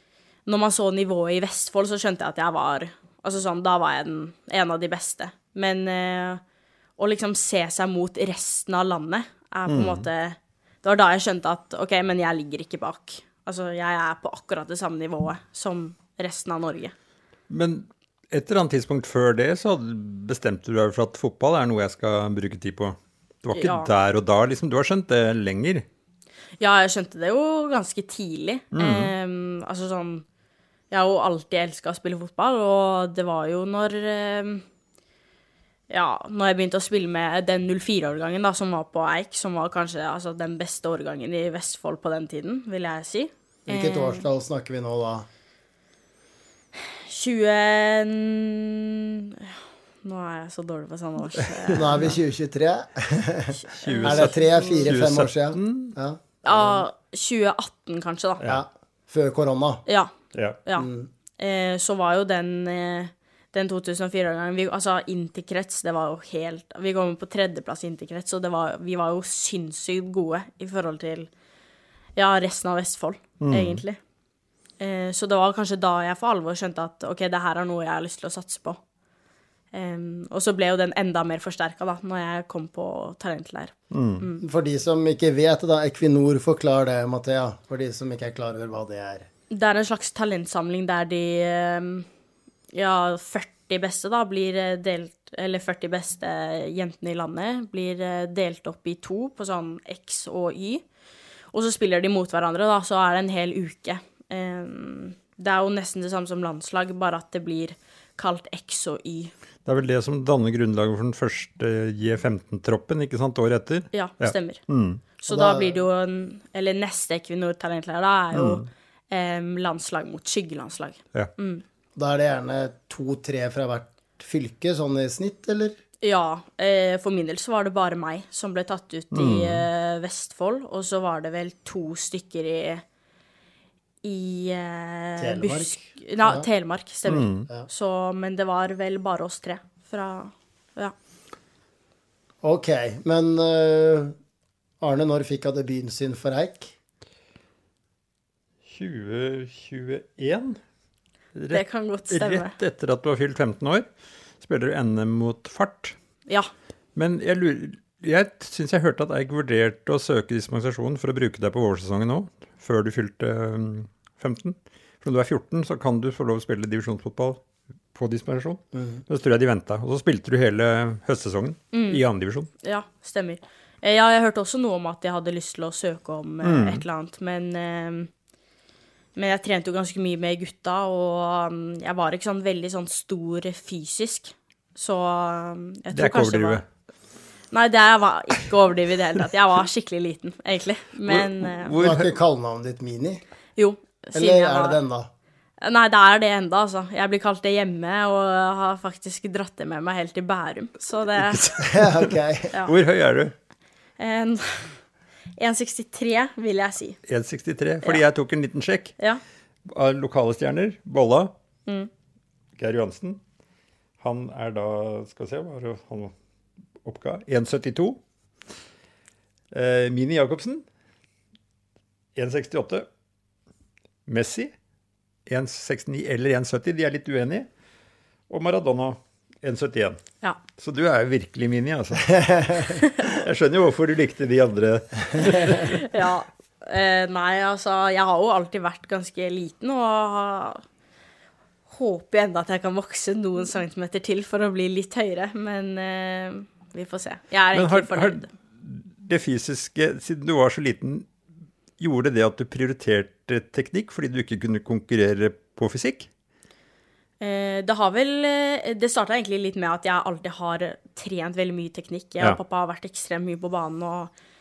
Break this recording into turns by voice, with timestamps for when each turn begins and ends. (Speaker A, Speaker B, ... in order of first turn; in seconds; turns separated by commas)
Speaker A: 0.5-6.4, Speaker A: 7.0-16.9, Speaker B: 9.7-10.1, Speaker B: 17.5-25.9, Speaker A: 23.5-23.9, Speaker A: 26.6-30.2, Speaker B: 28.7-29.1, Speaker A: 30.9-34.6, Speaker A: 35.9-44.3, Speaker C: 43.7-45.3, Speaker A: 46.9-52.0, Speaker C: 51.7-56.8, Speaker B: 53.8-56.0, Speaker A: 53.8-54.8, Speaker A: 56.4-58.4, Speaker C: 58.4-59.8, Speaker A: 59.9-60.1, Speaker B: 60.3-60.6, Speaker C: 60.8-61.1, Speaker A: 61.4-71.3, Speaker A: 72.2-74.0, Speaker B: 73.4-73.8, Speaker A: 74.8-78.8, Speaker A: 79.7-84.4, Speaker B: 83.9-84.2, Speaker C: 84.4-89.3, Speaker A: 89.5-92.1, Speaker A: 92.7-100.8, Speaker A: 101.5-109.3, Speaker B: 109.7-115.0, Speaker A: 113.9-114.6, Speaker A: 115.2-121.6, Speaker C: 115.3-115.8, Speaker B: 118.3-118.7, Speaker C: 122.0-125.8, Speaker A: 126.0-132.8, Speaker B: 129.1-129.7, Speaker A: 134.0-140.9, Speaker C: 135.2-136.5, Speaker B: 137.1-137.5, Speaker C: 142.4-144.2, Speaker C: 144.8-146.7, Speaker B: 148.7-150.6, Speaker B: 151.4-153.9, Speaker A: 151.5-152.6, Speaker B: 154.4-156.0, Speaker B: 157.0-167.4, Speaker B: 167.9-172.5, Speaker C: 168.7-169.0, Speaker A: 171.7-172.0, Speaker A: 172.6-178.1, Speaker B: 176.4-176.8, Speaker A: 179.2-186.6, Speaker B: 185.9-186.7, Speaker A: 187.5-191.7, Speaker B: 191.1-192.2, Speaker C: 191.8-193.2, Speaker A: 193.6-194.8, Speaker C: 194.1-195.1, Speaker A: 195.6-201.5, Speaker B: 201.2-202.2, Speaker C: 201.6-202.5, Speaker B: 202.7-203.3, Speaker A: 204.0-204.8, Speaker A: 205.4-207.0, Speaker B: 207.1-208.9, Speaker B: 209.7-211.3, Speaker B: 212.6-213.2, Speaker B: 214.0-216.1, Speaker B: 216.8-218.0, Speaker B: 219.5-220.6, Speaker B: 222.2-222.9, Speaker B: 224.1-224.5, Speaker B: 225.3-227.5, Speaker B: 228.3-230.0, Speaker B: 230.6-235.8, Speaker A: 235.3-240.6, Speaker A: 241.7-248.3, Speaker B: 247.5-251.1, Speaker B: 251.8-256.1, Speaker A: 257.2-264.1